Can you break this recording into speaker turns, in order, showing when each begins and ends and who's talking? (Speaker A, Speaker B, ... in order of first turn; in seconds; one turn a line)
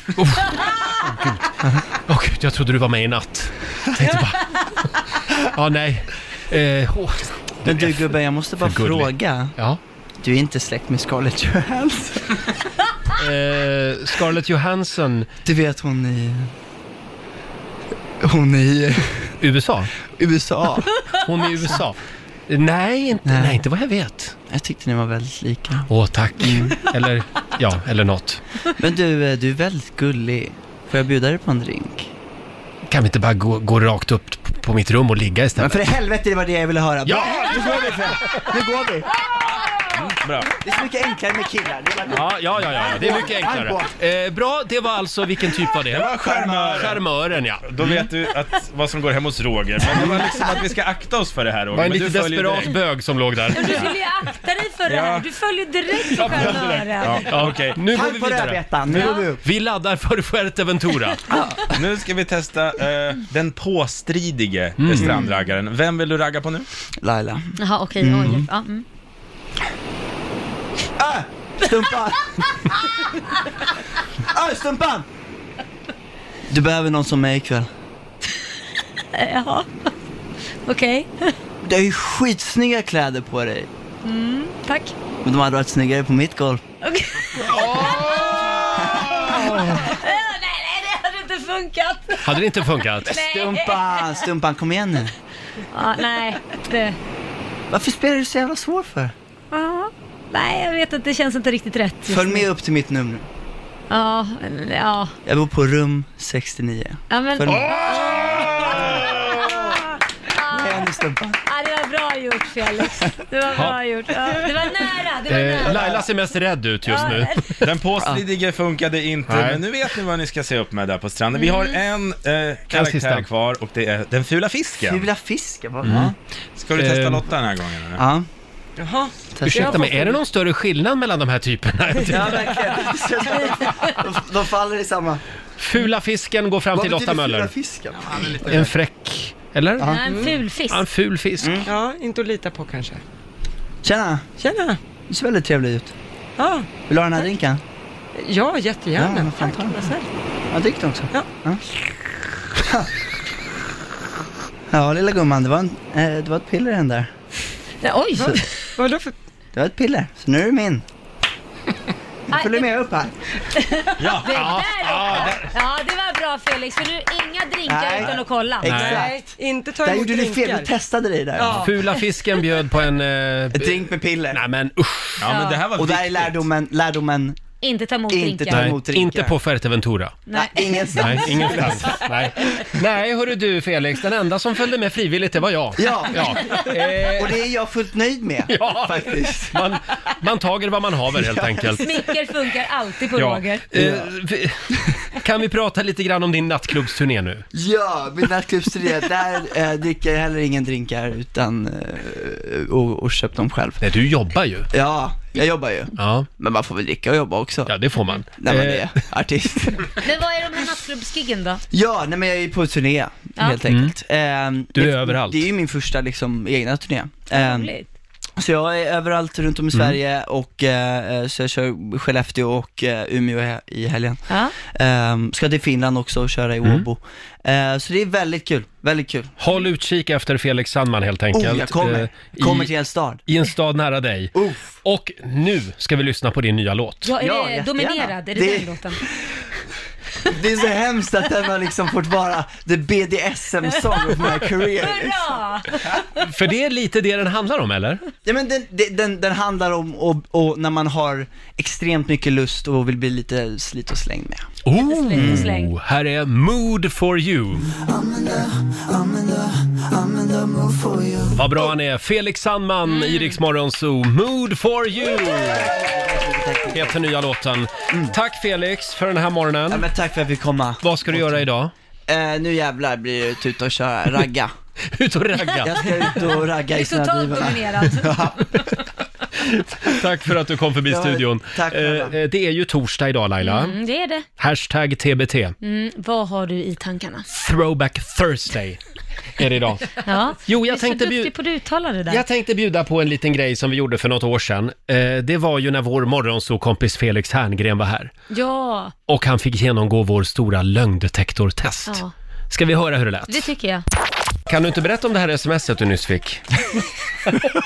Speaker A: 0.2-4.6
Speaker A: 5.4-9.8
Speaker B: 7.6-9.5
Speaker B: 10.2-12.4
Speaker A: 13.2-15.3
Speaker B: 15.4-16.5
Speaker B: 18.2-19.3
Speaker A: 19.4-19.9
Speaker B: 20.2-20.9
Speaker A: 21.2-22.0
Speaker A: 22.5-24.4
Speaker B: 23.3-23.6
Speaker B: 24.5-25.9
Speaker A: 25.9-28.4
Speaker B: 26.4-26.8
Speaker B: 28.8-32.1
Speaker A: 32.9-35.8
Speaker B: 35.6-39.2
Speaker A: 37.0-37.9
Speaker C: 39.4-40.5
Speaker B: 40.6-43.9
Speaker A: 42.1-46.1
Speaker C: 45.9-47.0
Speaker B: 46.2-47.0
Speaker A: 46.7-48.0
Speaker C: 47.6-52.8
Speaker B: 49.9-50.7
Speaker A: 51.7-53.8
Speaker D: 53.5-57.3
Speaker C: 54.9-55.2
Speaker A: 56.2-61.2
Speaker C: 57.0-57.8
Speaker B: 57.9-59.4
Speaker D: 58.9-59.3
Speaker B: 61.3-61.8
Speaker C: 61.7-66.7
Speaker A: 64.8-65.2
Speaker B: 65.0-65.3
Speaker B: 67.0-68.4
Speaker D: 67.6-68.8
Speaker B: 71.0-72.4
Speaker B: 74.3-75.1
Speaker B: 76.5-77.7
Speaker D: 79.1-79.7
Speaker D: 80.7-81.3
Speaker B: 81.6-83.7
Speaker D: 84.0-85.0
Speaker B: 85.2-86.6
Speaker D: 86.8-94.2
Speaker A: 87.5-88.6
Speaker B: 88.8-89.9
Speaker A: 92.2-93.1
Speaker B: 93.1-95.1
Speaker D: 95.7-97.0
Speaker B: 97.7-99.1
Speaker D: 99.5-102.5
Speaker B: 102.1-103.3
Speaker D: 103.9-105.1
Speaker B: 105.2-109.6
Speaker D: 107.1-116.0
Speaker B: 110.5-111.4
Speaker A: 115.3-117.6
Speaker B: 115.7-116.0
Speaker D: 116.9-117.4
Speaker C: 117.6-125.1
Speaker A: 119.3-119.6
Speaker D: 121.4-121.8
Speaker A: 122.7-123.3
Speaker B: 124.8-126.1
Speaker A: 125.8-126.1
Speaker C: 125.8-128.0
Speaker A: 126.8-127.2
Speaker B: 128.0-128.3
Speaker E: 128.8-129.9
Speaker B: 129.3-129.9
Speaker A: 129.4-132.8
Speaker B: 132.1-135.2
Speaker A: 135.6-137.5
Speaker B: 136.7-138.7
Speaker A: 138.4-139.9
Speaker D: 139.8-140.8
Speaker E: 140.1-140.3
Speaker A: 140.7-141.6
Speaker B: 141.4-141.7
Speaker E: 141.7-143.0
Speaker B: 143.8-144.3
Speaker E: 144.4-144.8
Speaker B: 145.1-145.9
Speaker E: 146.4-146.7
Speaker B: 146.9-147.6
Speaker E: 148.1-150.1
Speaker B: 148.9-149.9
Speaker B: 150.5-151.6
Speaker B: 152.6-152.9
Speaker B: 154.7-157.1
Speaker D: 157.8-158.7
Speaker E: 158.8-159.1
Speaker B: 159.5-160.8
Speaker B: 162.3-163.1
Speaker D: 162.3-162.7
Speaker D: 163.6-168.7
Speaker C: 164.0-164.3
Speaker A: 164.3-165.5
Speaker B: 167.7-169.2
Speaker A: 168.6-169.1
Speaker E: 168.7-170.7
Speaker B: 169.8-171.7
Speaker A: 171.5-175.3
Speaker B: 173.5-174.4
Speaker C: 175.2-176.5
Speaker D: 175.3-175.6
Speaker B: 175.8-177.4
Speaker D: 177.6-178.8
Speaker B: 178.1-179.4
Speaker A: 178.5-180.2
Speaker D: 180.3-182.0
Speaker B: 180.3-181.9
Speaker A: 181.0-187.4
Speaker B: 185.8-189.6
Speaker A: 188.5-191.9
Speaker B: 191.2-191.9
Speaker D: 191.8-193.7
Speaker A: 193.2-197.5
Speaker B: 197.5-203.8
Speaker A: 203.8-204.7
Speaker B: 204.7-207.7
Speaker A: 206.0-206.3
Speaker A: 207.7-208.9
Speaker B: 208.4-210.0
Speaker D: 210.0-211.6
Speaker B: 211.7-217.8
Speaker A: 213.7-213.9
Speaker A: 214.8-215.5
Speaker D: 217.3-217.9
Speaker B: 218.4-229.3
Speaker A: 229.4-232.7
Speaker B: 231.3-233.2
Speaker A: 233.3-237.1
Speaker B: 234.3-234.8
Speaker D: 237.0-239.0
Speaker B: 237.2-239.1
Speaker B: 240.3-245.4
Speaker D: 244.1-245.7
Speaker A: 246.2-248.0
Speaker B: 248.3-254.5
Speaker A: 254.6-257.7
Speaker D: 254.8-255.7
Speaker B: 255.1-255.5
Speaker B: 257.7-261.7
Speaker A: 261.3-265.7
Speaker D: 262.9-263.4
Speaker B: 265.1-267.0
Speaker A: 266.7-269.9
Speaker B: 269.7-271.4
Speaker A: 270.8-271.7
Speaker B: 272.1-274.5
Speaker A: 274.9-275.9
Speaker B: 275.6-278.5
Speaker D: 275.8-278.6
Speaker A: 279.4-283.8
Speaker B: 280.9-282.2
Speaker D: 283.4-284.3
Speaker A: 284.4-285.6
Speaker D: 285.6-287.3
Speaker A: 287.3-288.8
Speaker A: 289.4-291.3
Speaker D: 290.1-292.2
Speaker A: 292.1-298.1
Speaker D: 298.3-298.9
Speaker A: 299.1-303.5
Speaker D: 301.9-302.1
Speaker D: 303.3-303.8
Speaker A: 304.5-306.4